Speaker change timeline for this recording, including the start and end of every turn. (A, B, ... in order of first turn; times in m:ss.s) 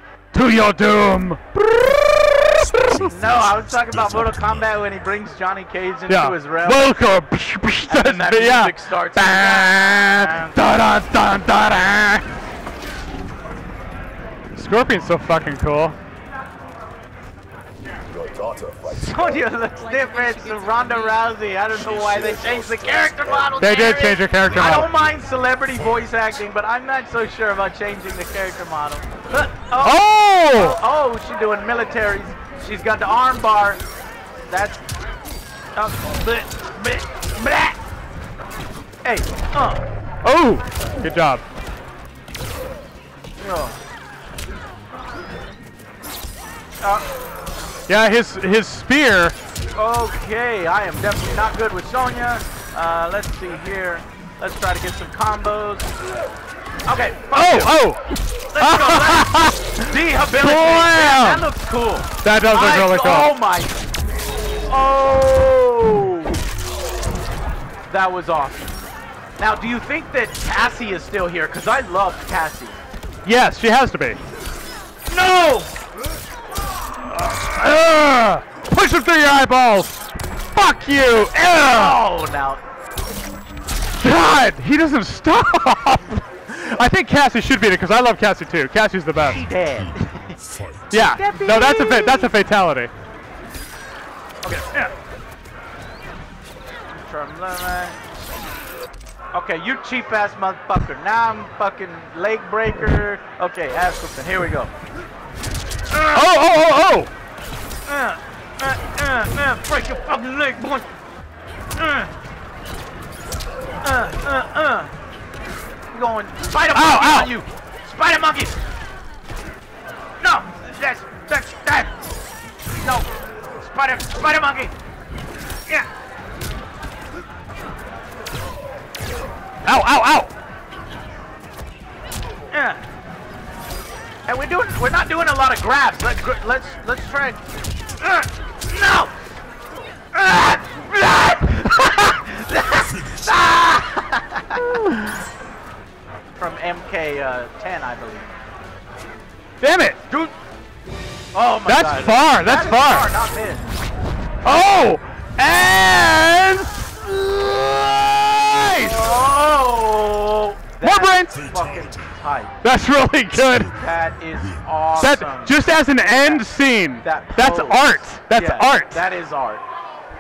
0:00.3-0:03.0 A
0:02.5-0:05.0 B
0:03.1-0:07.0 C
0:06.1-0:12.2 A
0:07.9-0:10.6 C
0:14.5-0:16.0 A
0:18.3-0:18.8 B
0:18.9-0:33.8 C
0:23.0-0:23.5 B
0:23.6-0:24.9 A
0:24.5-0:26.3 B
0:29.8-0:30.8 A
0:34.5-0:34.8 C
0:35.8-0:37.8 C
0:39.0-0:39.8 C
0:40.2-0:41.4 A
0:43.4-0:43.8 C
0:46.8-0:47.0 C
0:47.9-0:49.4 A
0:49.8-0:55.9 C
0:56.9-0:57.8 C
0:57.3-0:59.8 A
0:58.5-1:03.8 C
1:00.3-1:01.5 A
1:02.2-1:03.3 A
1:04.7-1:06.4 C
1:07.9-1:08.8 C
1:09.4-1:12.8 C
1:13.2-1:14.2 A
1:15.1-1:15.7 C
1:17.4-1:20.0 A
1:20.5-1:22.0 A
1:21.7-1:22.6 C
1:24.0-1:29.5 A
1:29.2-1:31.1 B
1:29.3-1:30.4 C
1:30.9-1:32.9 A
1:31.0-1:32.3 C
1:34.4-1:34.9 C
1:36.9-1:38.0 C
1:39.3-1:44.7 C
1:45.9-1:46.3 C
1:46.1-1:47.1 A
1:47.9-1:50.9 C
1:51.8-1:52.1 C
1:53.8-1:54.9 C
1:55.9-1:58.5 C
1:56.7-1:57.3 A
2:00.2-2:02.0 C
2:02.8-2:04.7 C
2:09.6-2:10.3 A
2:12.5-2:12.8 C
2:14.3-2:17.4 C
2:18.0-2:19.1 C
2:20.1-2:24.8 C
2:22.8-2:23.5 B
2:26.4-2:28.3 C
2:29.6-2:30.0 A
2:31.3-2:33.7 C
2:31.7-2:33.1 A
2:34.4-2:39.1 A
2:38.8-2:42.5 C
2:40.8-2:41.3 A
2:41.3-2:42.2 B
2:42.6-2:43.7 A
2:43.3-2:44.7 B
2:43.7-2:46.5 C
2:45.0-2:48.9 A
2:47.0-2:49.6 C